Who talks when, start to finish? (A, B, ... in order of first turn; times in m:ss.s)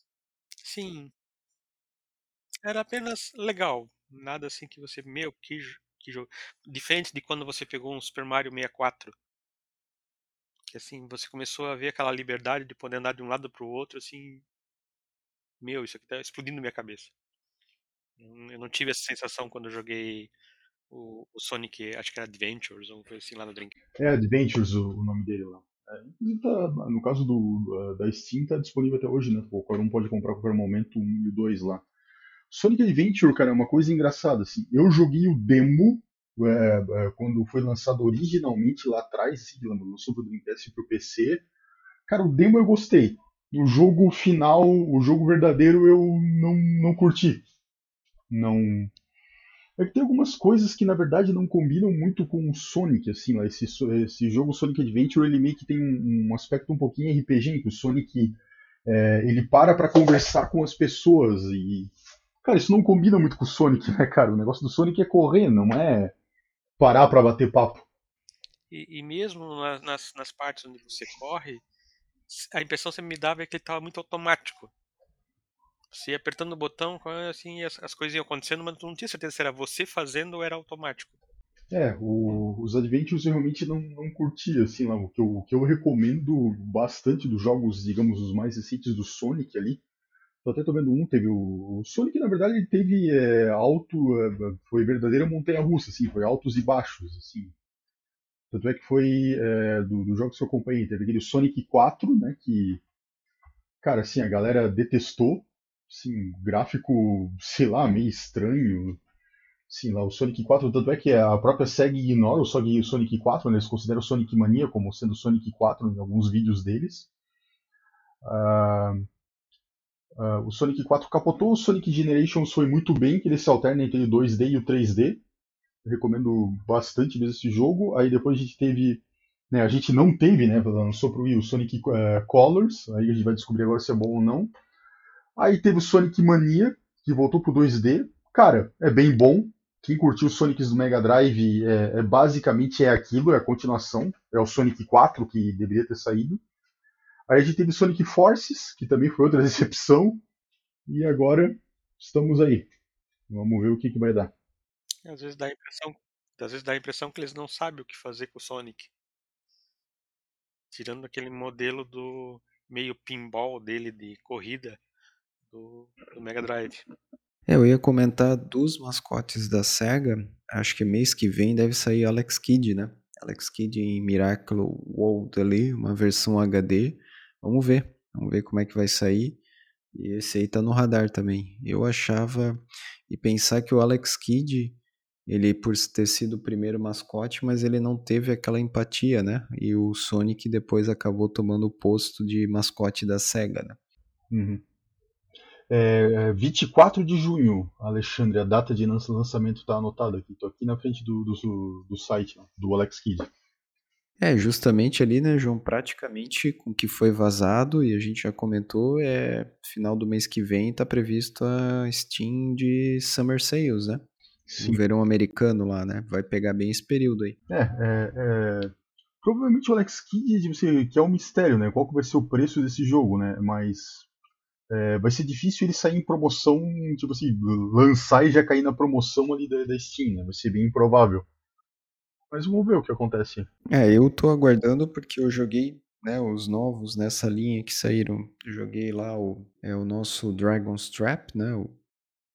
0:00.6-0:01.1 A
0:02.6-0:09.1 A
0:10.7-0:14.4 A
0:15.6-0:17.1 A
0:18.2-0:20.3 A
0:20.9-0:23.8 A
0:24.0-0:31.8 B
0:32.5-0:41.4 B
0:42.1-0:47.4 B
0:48.3-0:48.9 B
0:49.8-1:01.9 B
1:02.4-1:06.1 B
1:06.8-1:07.8 B
1:08.7-1:11.6 A
1:12.3-1:14.7 A
1:15.9-1:21.1 A
1:21.7-1:29.8 B
1:30.4-1:37.5 B
1:38.5-1:42.8 B
1:43.8-1:49.0 B
1:49.7-1:57.1 B
1:58.2-1:59.1 B
2:00.2-2:05.2 B
2:05.8-2:14.5 B
2:15.4-2:26.4 B
2:27.3-2:30.2 B
2:30.9-2:32.7 B
2:33.3-2:34.3 B
2:35.0-2:38.9 A
2:40.7-2:44.8 A
2:45.5-2:46.8 A
2:47.5-2:59.4 C
2:59.9-3:13.8 C
3:14.3-3:14.6 B
3:15.7-3:23.3 B
3:24.2-3:34.1 C
3:34.5-3:34.8 B
3:34.6-3:37.4 C
3:37.5-3:44.1 B
3:44.7-3:51.2 B
3:52.3-3:53.5 B
3:53.7-4:01.8 C